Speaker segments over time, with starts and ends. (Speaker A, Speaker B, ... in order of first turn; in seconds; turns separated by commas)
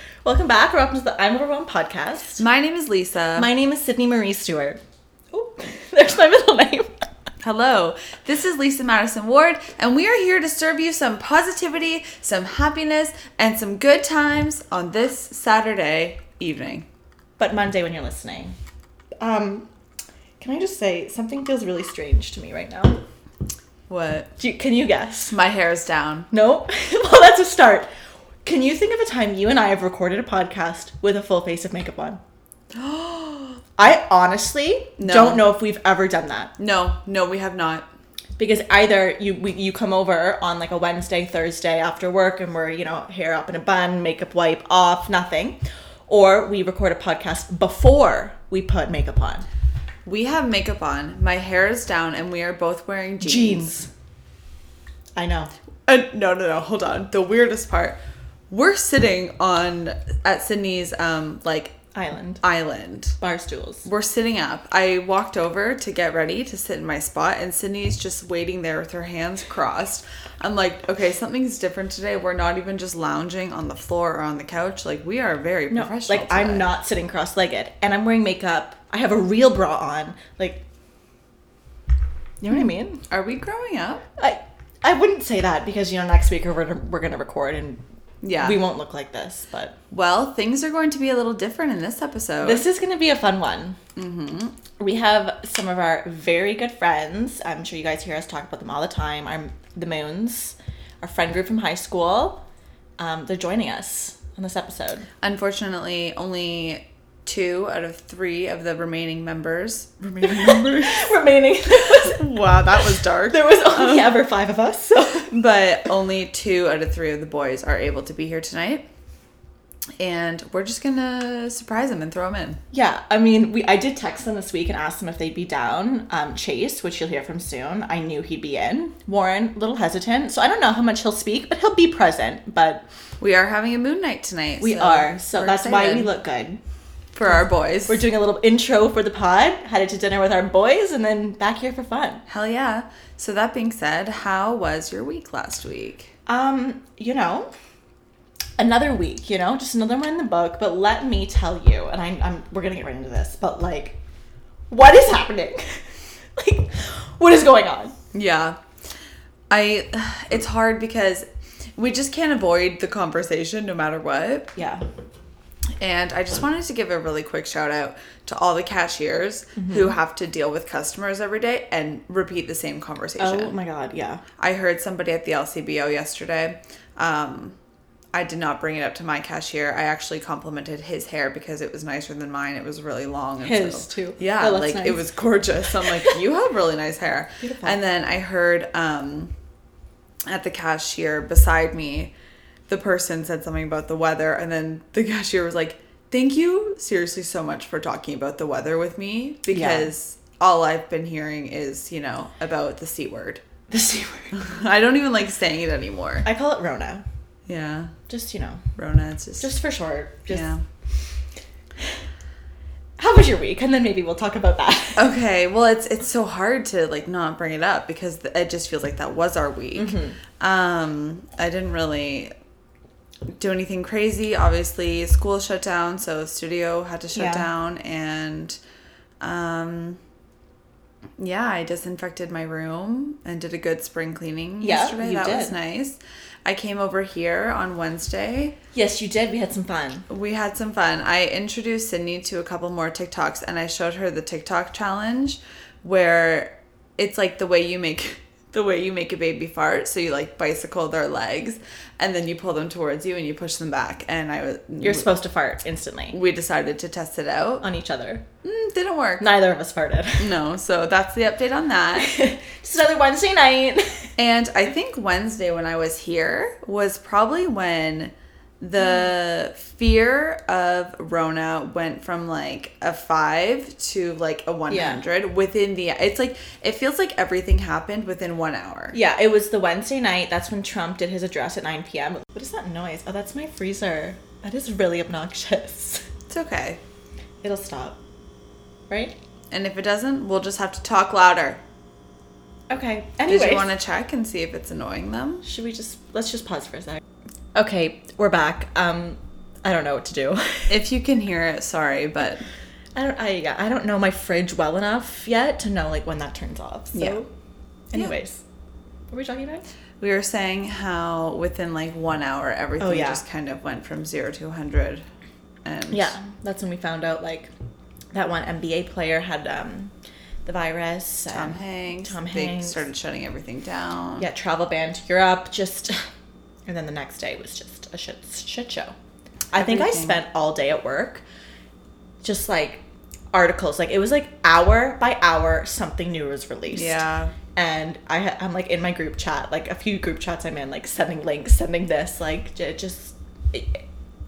Speaker A: 0.2-2.4, Speaker B: 2.4-3.5, Speaker A: 3.4-4.8, Speaker A: 5.3-6.9, Speaker B: 7.4-16.9, Speaker A: 17.4-18.6, Speaker A: 19.2-19.7, Speaker A: 20.4-23.0, Speaker B: 23.9-24.3, Speaker A: 24.4-25.4, Speaker B: 25.3-26.3, Speaker A: 26.3-27.9, Speaker A: 28.4-32.2, Speaker B: 32.7-33.6, Speaker A: 33.8-36.5, Speaker B: 35.0-35.5, Speaker B: 36.6-37.9, Speaker A: 38.4-49.5, Speaker B: 50.0-53.7, Speaker A: 53.2-53.9, Speaker A: 55.2-55.5, Speaker B: 55.9-58.0, Speaker B: 58.5-61.8, Speaker A: 61.9-62.4, Speaker B: 62.4-63.2, Speaker A: 63.2-63.9, Speaker B: 63.8-76.7, Speaker A: 75.7-80.6, Speaker A: 82.4-83.0, Speaker B: 83.1-84.0, Speaker A: 84.2-87.8, Speaker B: 88.2-88.6, Speaker A: 88.4-89.8, Speaker B: 89.9-92.6, Speaker A: 92.4-93.8, Speaker B: 94.0-94.5, Speaker A: 94.8-102.4, Speaker A: 103.0-105.1, Speaker B: 105.2-111.1, Speaker A: 110.2-112.2, Speaker B: 111.8-114.2, Speaker A: 113.3-115.3, Speaker B: 115.3-118.9, Speaker B: 120.0-122.6, Speaker A: 122.7-132.8, Speaker B: 133.2-136.1, Speaker A: 134.6-136.6, Speaker B: 137.1-138.0, Speaker A: 137.9-142.2, Speaker B: 142.3-146.1, Speaker A: 146.2-147.5, Speaker A: 148.6-154.0, Speaker A: 154.7-155.8, Speaker A: 156.3-157.9, Speaker B: 158.1-158.6, Speaker B: 159.5-164.6, Speaker A: 164.6-164.8, Speaker B: 165.8-173.6, Speaker A: 169.6-169.9, Speaker A: 173.2-174.2, Speaker B: 174.4-177.6, Speaker B: 178.1-189.3, Speaker A: 183.4-185.1, Speaker A: 187.4-187.8, Speaker B: 190.3-192.1, Speaker B: 192.7-203.4, Speaker A: 199.5-199.9, Speaker A: 203.7-204.4, Speaker B: 204.3-206.2, Speaker A: 206.2-207.0, Speaker B: 207.5-207.9, Speaker A: 208.1-208.7, Speaker B: 208.8-209.5, Speaker A: 209.4-210.5, Speaker B: 210.3-210.6, Speaker A: 213.0-215.1, Speaker B: 214.9-222.3, Speaker A: 219.7-220.2, Speaker B: 223.3-228.6, Speaker A: 227.2-227.4, Speaker B: 229.2-230.0, Speaker B: 231.2-238.5, Speaker A: 234.6-235.5, Speaker A: 238.7-240.1, Speaker B: 240.1-255.1, Speaker A: 254.8-256.2, Speaker B: 256.1-257.6, Speaker A: 257.6-258.2, Speaker B: 258.4-259.2, Speaker A: 259.2-260.3, Speaker B: 260.2-262.1, Speaker A: 262.0-264.1, Speaker B: 264.2-279.0, Speaker A: 274.7-275.0, Speaker A: 278.9-286.1, Speaker B: 286.3-286.8, Speaker A: 287.4-288.0, Speaker A: 288.9-289.1, Speaker B: 289.5-291.6, Speaker A: 292.7-293.7, Speaker B: 293.3-295.4, Speaker A: 295.4-297.0, Speaker A: 297.6-300.8, Speaker B: 300.7-302.5, Speaker A: 302.9-307.3, Speaker B: 306.9-307.2, Speaker A: 307.9-308.4, Speaker A: 309.1-309.6, Speaker B: 310.0-315.1, Speaker A: 312.8-313.2, Speaker B: 315.6-316.1, Speaker A: 315.9-317.5, Speaker A: 318.1-319.9, Speaker A: 320.5-322.8, Speaker B: 321.3-324.3, Speaker A: 324.2-326.1, Speaker A: 326.7-328.9, Speaker A: 329.5-331.2, Speaker B: 329.5-330.2, Speaker A: 332.2-337.0, Speaker B: 336.7-337.3, Speaker A: 337.6-343.8